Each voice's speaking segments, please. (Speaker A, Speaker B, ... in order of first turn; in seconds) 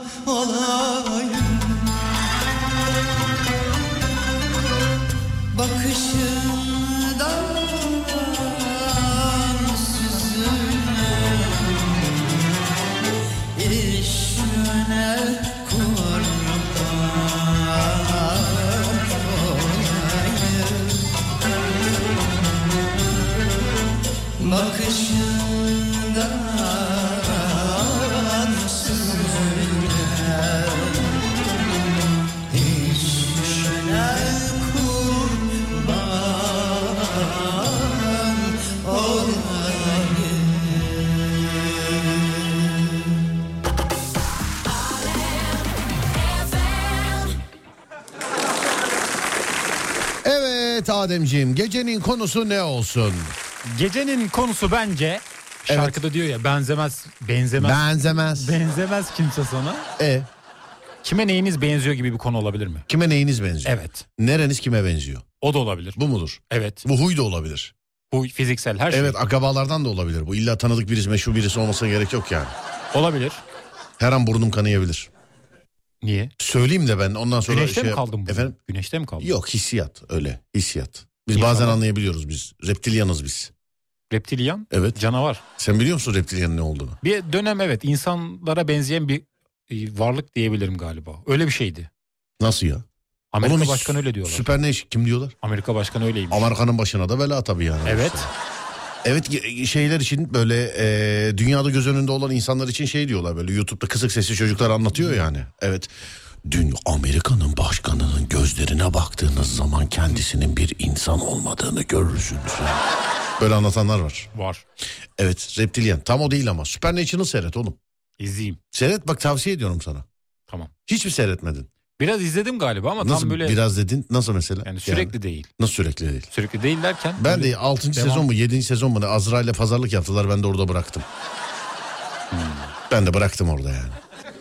Speaker A: 5.6-12.1, 13.6-21.1, 24.4-29.0, 29.6-31.0, 32.5-38.2, 39.0-41.1
Speaker B: 50.2-53.4, 55.7-56.0, 57.6-58.6, 60.0-60.3, 62.9-65.2, 66.0-67.7, 68.9-72.5, 74.0-75.1, 76.4-78.6, 79.2-83.5, 84.7-85.0, 85.6-87.0, 92.4-92.8, 93.4-95.3, 96.3-98.3, 99.0-105.9, 106.5-112.8, 113.4-114.3, 115.2-117.8, 118.7-120.1, 120.9-121.7, 123.0-126.3, 127.2-131.1, 132.9-134.0
Speaker C: 53.6-59.9, 61.0-62.9, 63.6-64.0, 65.4-66.0, 66.5-66.8, 68.1-69.2, 72.9-73.4, 76.0-76.3, 77.5-79.3, 81.3-81.8, 84.1-85.4, 87.0-91.9, 93.3-94.6, 95.4-96.5, 97.8-98.3, 114.3-114.7, 118.2-118.6, 122.0-123.6, 124.6-125.5, 126.3-128.3, 132.3-132.7